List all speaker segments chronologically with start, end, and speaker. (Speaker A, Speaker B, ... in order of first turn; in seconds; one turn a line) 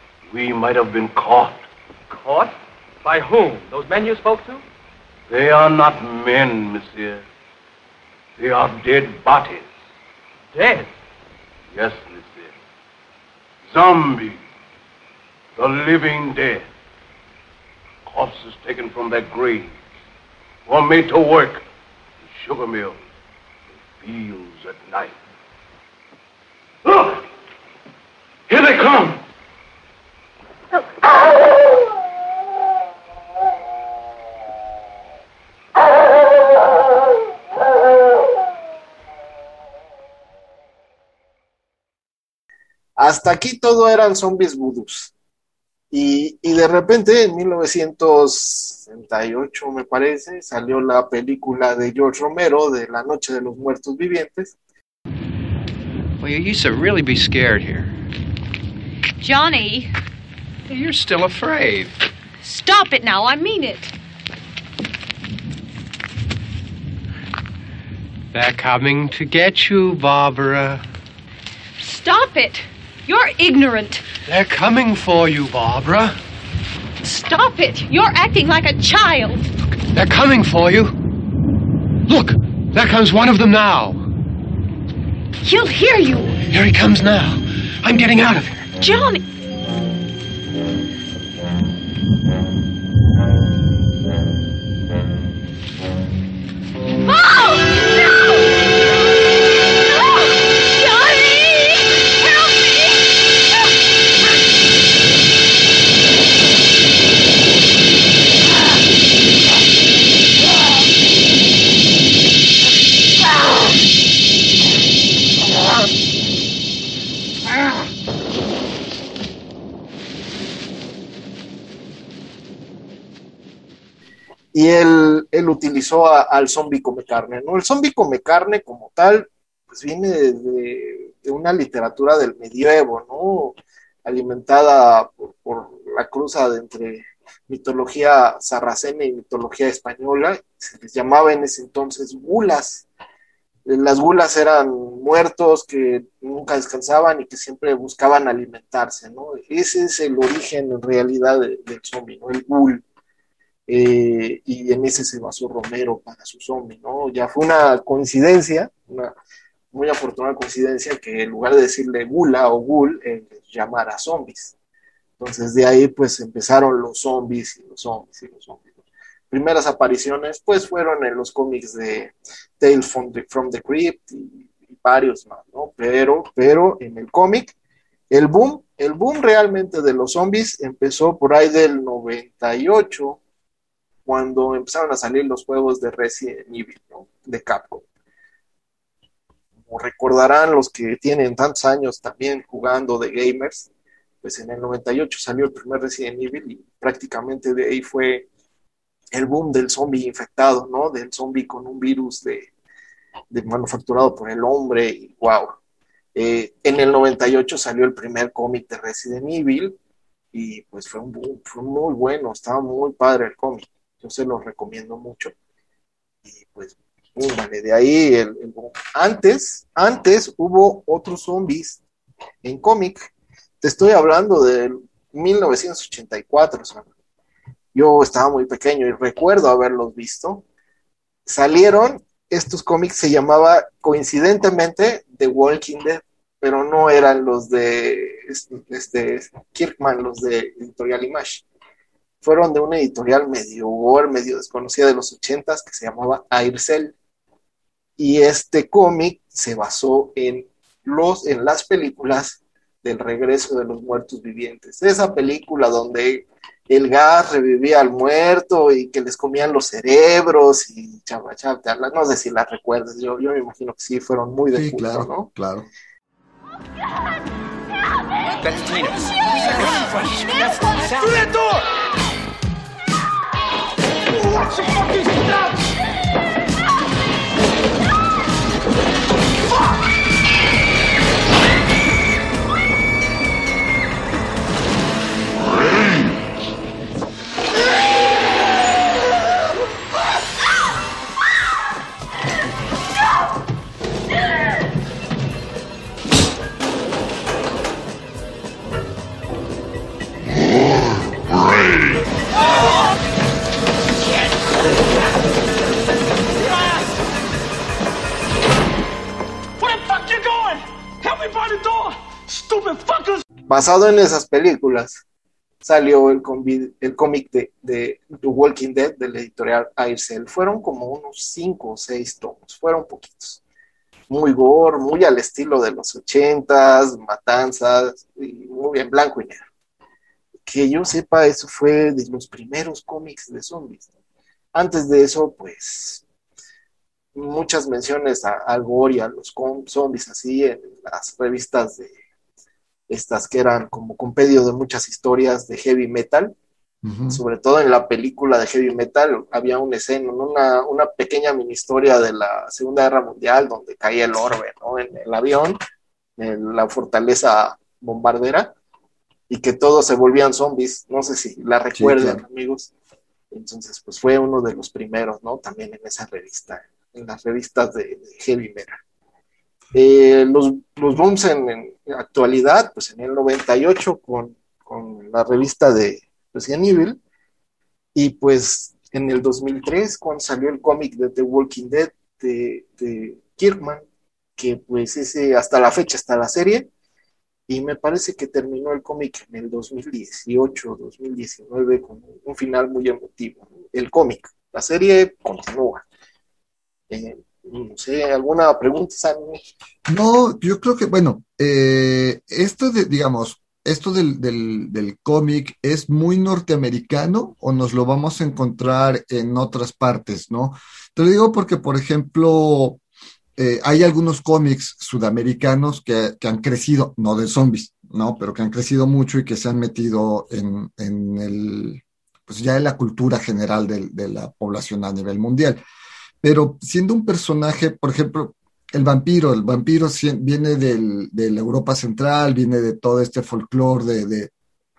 Speaker A: 0.3-1.6
Speaker B: 2.1-4.6
Speaker A: 5.3-7.2
Speaker A: 8.4-9.7
Speaker B: 10.5-10.9
Speaker A: 11.7-12.5
Speaker A: 13.7-14.4
Speaker A: 15.6-16.6
Speaker A: 18.1-19.7
Speaker A: 20.6-21.6
Speaker A: 22.2-23.0
Speaker A: 23.9-25.2
Speaker A: 26.8-27.2
Speaker A: 28.5-29.2
Speaker C: 43.0-45.1
Speaker C: 45.9-54.5
Speaker D: 56.2-57.9
Speaker E: 59.2-59.9
Speaker D: 60.7-61.9
Speaker E: 62.4-63.9
Speaker D: 68.3-70.8
Speaker E: 71.8-74.0
Speaker D: 74.2-76.2
Speaker E: 77.0-79.5
Speaker D: 79.9-80.9
Speaker D: 82.1-84.0
Speaker E: 85.4-86.4
Speaker D: 86.5-88.7
Speaker E: 88.8-89.2
Speaker E: 97.1-98.3
Speaker E: 99.9-103.0
Speaker C: 124.5-142.9
Speaker C: 143.6-152.8
Speaker C: 153.7-159.1
Speaker C: 159.7-164.5
Speaker C: 165.2-168.7
Speaker C: 169.3-177.5
Speaker C: 178.1-183.2
Speaker C: 184.1-187.8
Speaker C: 189.7-193.7
Speaker C: 194.2-198.3
Speaker C: 199.1-202.5
Speaker C: 203.3-205.5
Speaker C: 206.1-209.8
Speaker C: 210.3-215.3
Speaker C: 216.2-221.8
Speaker C: 222.4-226.9
Speaker C: 227.7-230.4
Speaker C: 231.2-241.4
Speaker C: 242.2-246.9
Speaker C: 248.0-265.3
Speaker F: 264.5-265.7
Speaker C: 313.5-315.0
Speaker C: 315.6-323.4
Speaker C: 324.1-329.4
Speaker C: 330.4-333.9
Speaker C: 334.5-336.0
Speaker C: 337.1-341.9
Speaker C: 342.9-346.3
Speaker F: 346.8-347.2
Speaker C: 347.1-355.6
Speaker C: 356.2-358.5
Speaker C: 359.3-362.7
Speaker F: 361.7-362.2
Speaker C: 363.3-368.8
Speaker C: 369.7-377.0
Speaker C: 377.9-383.8
Speaker C: 384.4-386.7
Speaker C: 387.5-395.8
Speaker C: 396.9-399.4
Speaker F: 399.9-412.8
Speaker F: 413.4-425.6
Speaker F: 426.2-434.3